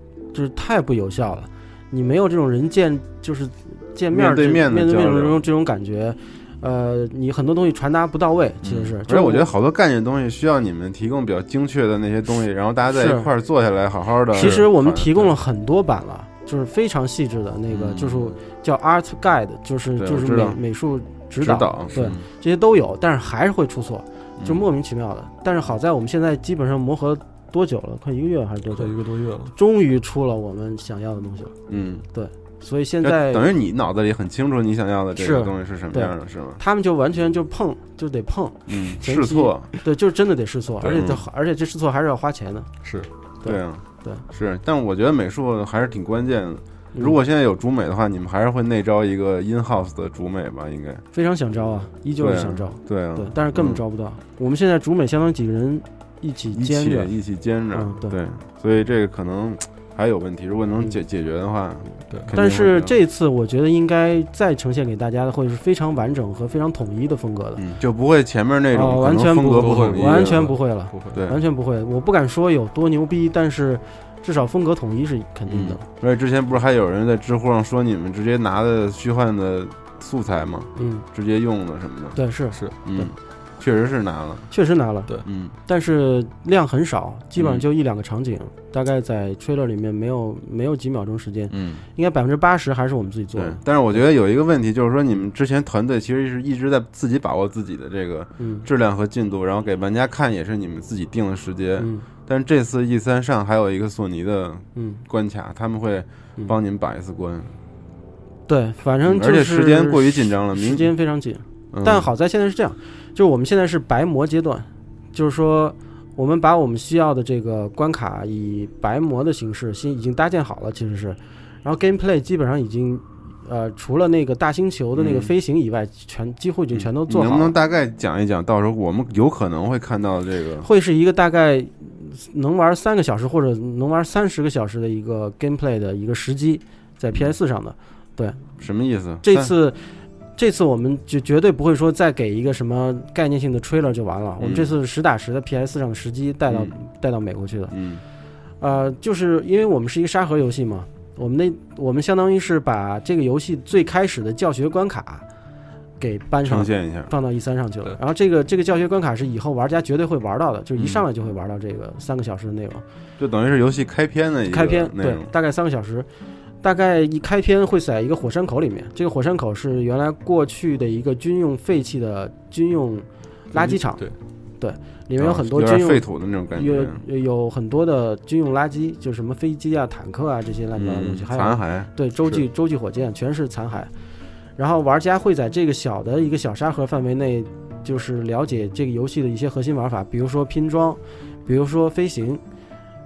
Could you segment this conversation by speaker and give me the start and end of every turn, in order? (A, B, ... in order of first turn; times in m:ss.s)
0:00.3-0:09.5 A
0:04.1-0:05.4 B
0:08.6-0:15.3 B
0:12.9-0:13.3 A
0:14.3-0:28.9 A
0:17.7-0:18.4 B
0:20.0-0:20.6 B
0:21.4-0:22.2 B
0:24.4-0:24.6 B
0:28.7-0:29.5 C
0:29.6-0:31.5 A
0:31.7-0:32.1 B
0:32.1-0:33.5 A
0:33.0-0:36.6 B
0:35.2-0:42.7 A
0:38.7-0:39.7 B
0:40.8-0:41.2 B
0:42.8-0:43.1 C
0:43.4-0:44.2 A
0:43.4-0:51.0 B
0:51.1-0:57.1 A
0:52.2-0:53.8 B
0:56.5-1:03.0 B
0:57.7-0:58.2 A
1:02.3-1:07.6 A
1:07.6-1:10.5 B
1:08.7-1:15.8 A
1:09.5-1:11.2 C
1:11.1-1:11.4 B
1:15.5-1:22.2 B
1:20.8-1:21.0 A
1:22.2-1:23.1 A
1:22.8-1:24.5 B
1:24.5-1:25.1 A
1:25.2-1:25.6 B
1:25.7-1:33.6 A
1:27.4-1:27.7 B
1:31.5-1:31.8 B
1:33.4-1:47.5 B
1:38.4-1:38.7 A
1:41.8-1:42.1 A
1:44.8-1:45.0 A
1:48.5-2:07.6 A
1:49.0-1:50.9 B
1:51.7-1:52.1 B
2:05.0-2:05.3 B
2:06.7-2:10.7 B
2:10.6-2:18.4 A
2:18.6-2:19.5 B
2:19.2-2:27.7 A
2:24.4-2:24.7 B
2:26.5-2:26.8 B
2:27.7-2:28.0 B
2:28.6-2:35.2 A
2:36.0-2:42.8 A
2:36.5-2:37.1 B
2:40.8-2:41.0 B
2:43.2-2:45.3 B
2:44.5-2:46.1 A
2:46.6-2:54.0 A
2:53.6-2:54.2 C
2:54.6-3:03.9 A
2:55.2-2:57.0 B
3:00.8-3:01.9 B
3:04.6-3:12.4 A